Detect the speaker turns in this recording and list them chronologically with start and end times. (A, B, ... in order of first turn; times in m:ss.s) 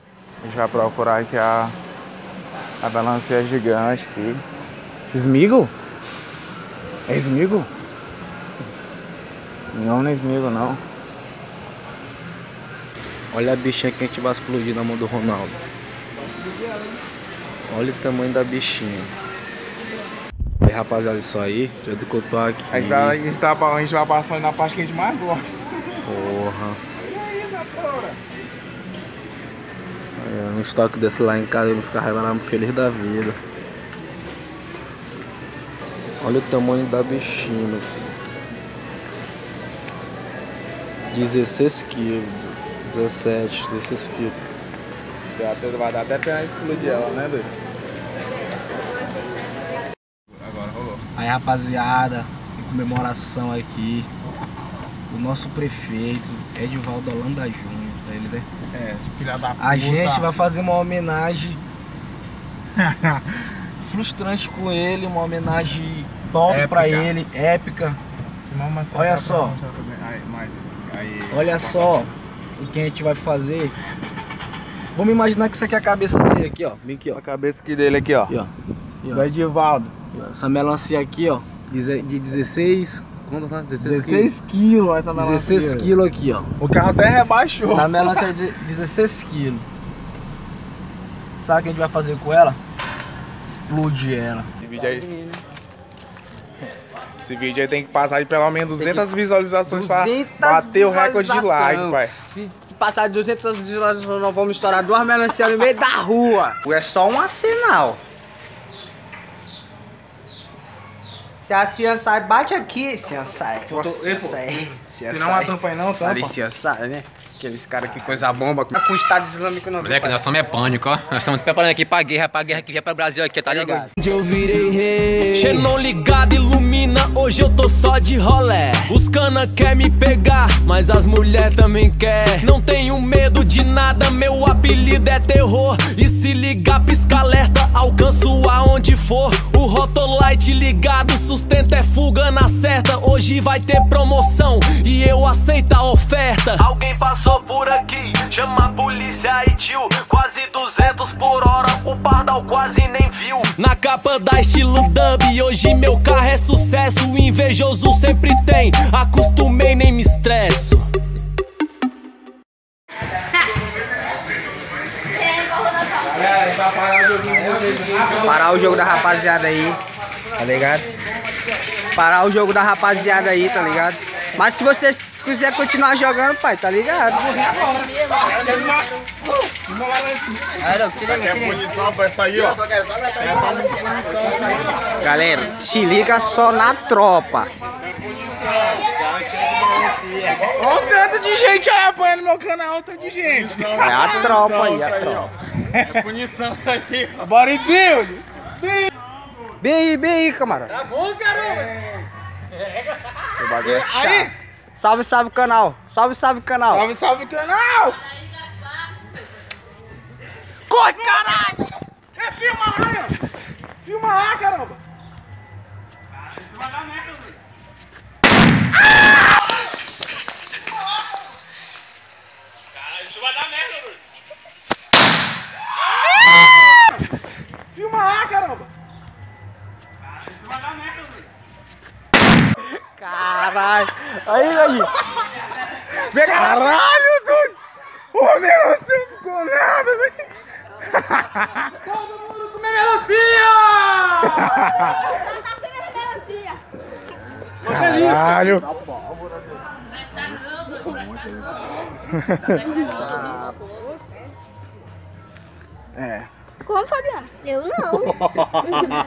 0:00.4-0:01.8 A
0:02.8-0:04.4 A
0:05.1-0:05.7 A
0:07.1-0:07.7 A
0:09.7-0:10.8 A
0:13.3-0:15.6 B
0:17.7-0:19.1 B
0:20.6-0:23.2 B
0:22.7-0:25.5 A
0:26.0-0:26.8 B
0:27.0-0:28.2 A
0:30.2-0:33.4 B
0:36.2-0:37.9 B
0:41.1-0:44.4 B
0:45.3-0:47.5 A
0:50.3-0:51.0 A
0:51.2-0:54.1 B
0:55.1-0:58.5 B
0:58.7-1:00.3 A
0:59.6-1:01.6 B
1:02.8-1:03.3 A
1:03.8-1:08.0 B
1:06.5-1:07.1 A
1:08.5-1:12.1 A
1:08.9-1:09.6 B
1:11.3-1:13.8 B
1:15.0-1:17.2 B
1:17.1-1:18.3 A
1:19.1-1:19.9 A
1:20.1-1:24.4 B
1:23.8-1:25.9 A
1:25.2-1:26.5 B
1:26.6-1:28.2 A
1:27.7-1:29.7 B
1:31.4-1:32.6 B
1:33.4-1:34.5 B
1:34.6-1:35.1 A
1:34.8-1:35.4 C
1:37.2-1:42.1 A
1:38.8-1:39.1 C
1:39.6-1:48.0 C
1:51.4-2:00.3 C
1:53.7-1:54.5 A
1:55.1-1:56.4 A
1:58.0-1:58.7 A
1:59.8-2:03.9 D
2:03.6-2:03.9 C
2:04.0-2:40.9 E
2:05.3-2:05.7 D
2:46.0-2:48.7 A
2:48.2-2:49.8 C
2:50.4-2:50.9 C
2:52.0-2:57.3 C
2:57.4-2:58.8 A
2:59.5-3:02.6 A
3:03.2-3:04.5 A
3:05.0-3:07.5 C
3:10.3-3:14.8 A
3:13.7-3:15.3 C
3:15.7-3:18.9 A
3:19.6-3:20.9 C
3:23.4-3:24.3 A
3:23.8-3:26.9 C
3:26.7-3:28.0 A
3:30.7-3:31.6 C
3:32.2-3:33.2 A
3:33.8-3:34.8 A
3:47.8-3:48.7 A
3:53.0-3:54.9 C
3:56.0-3:57.6 A
3:58.1-4:00.2 A
4:00.9-4:04.9 A
4:07.7-4:08.7 A
4:12.2-4:12.6 A
4:16.0-4:16.3 A
4:16.6-4:18.1 D
4:18.4-4:18.8 A